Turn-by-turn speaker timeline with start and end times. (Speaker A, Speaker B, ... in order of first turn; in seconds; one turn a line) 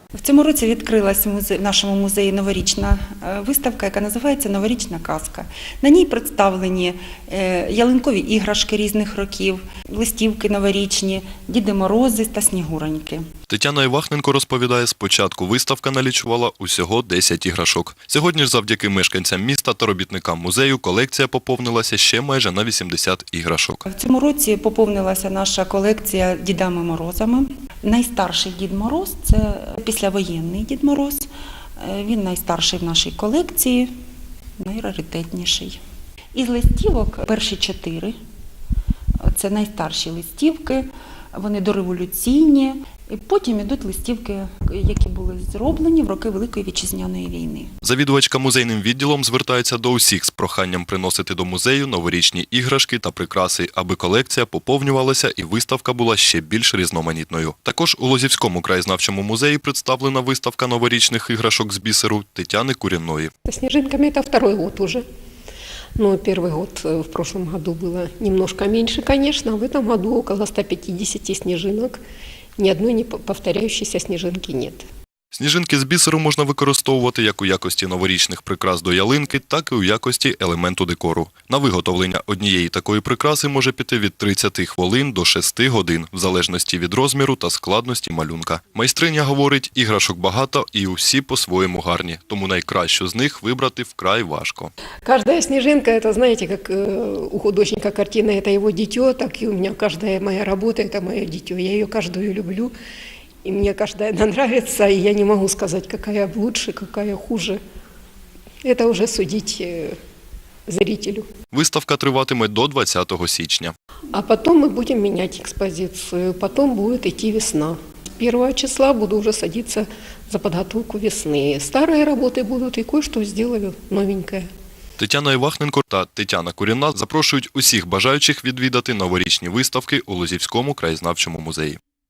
Speaker A: 0.1-13.2
Speaker B: 13.5-23.8
Speaker A: 23.9-33.9
Speaker A: 34.6-35.8
Speaker A: 36.3-38.1
Speaker A: 39.2-47.7
Speaker B: 47.8-63.3
Speaker C: 63.5-65.0
Speaker C: 66.0-72.0
Speaker C: 72.6-74.8
Speaker B: 75.3-94.7
Speaker C: 95.0-102.7
Speaker C: 103.4-107.6
Speaker C: 108.6-110.0
Speaker C: 110.7-111.3
Speaker B: 111.5-113.7
Speaker C: 114.1-124.5
Speaker B: 125.0-131.8